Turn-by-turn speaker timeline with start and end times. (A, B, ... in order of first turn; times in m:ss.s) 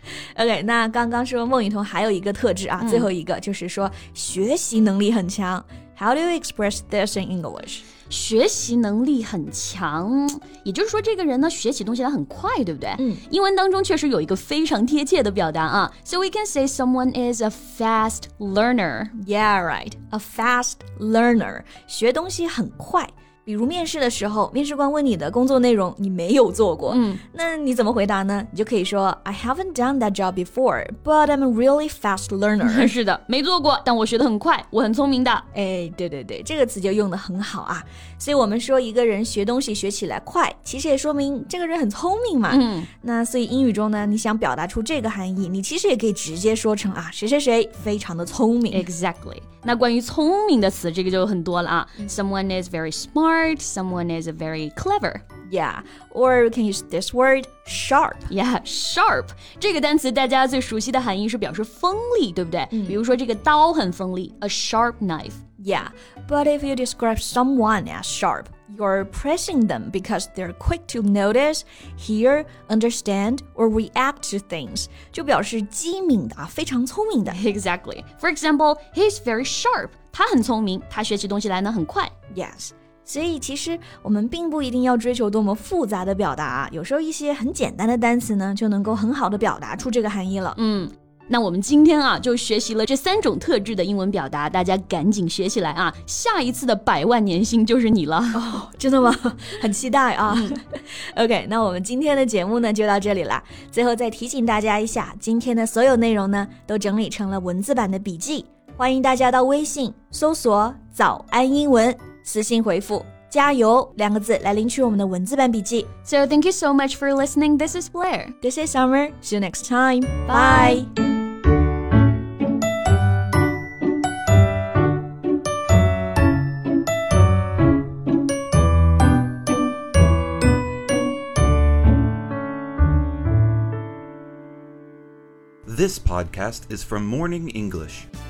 0:00.3-0:07.8 A
0:02.8-0:03.1 B
0:08.1-0:19.1 B
0:13.0-0:13.2 A
0:19.2-0:32.9 A
0:26.9-0:27.2 B
0:32.6-0:35.4 B
0:35.5-0:48.9 A
0:42.5-0:42.9 B
0:48.7-0:55.2 B
0:55.5-0:58.3 A
0:58.3-1:05.4 B
1:02.7-1:03.0 A
1:05.6-1:17.4 A
1:17.3-1:22.1 B
1:22.3-1:30.6 A
1:30.6-1:38.4 B
1:38.3-1:55.9 A
1:40.3-1:40.6 B
1:56.0-1:58.4 B
1:58.4-2:00.9 A
2:00.3-2:00.8 B
2:15.6-2:18.1 C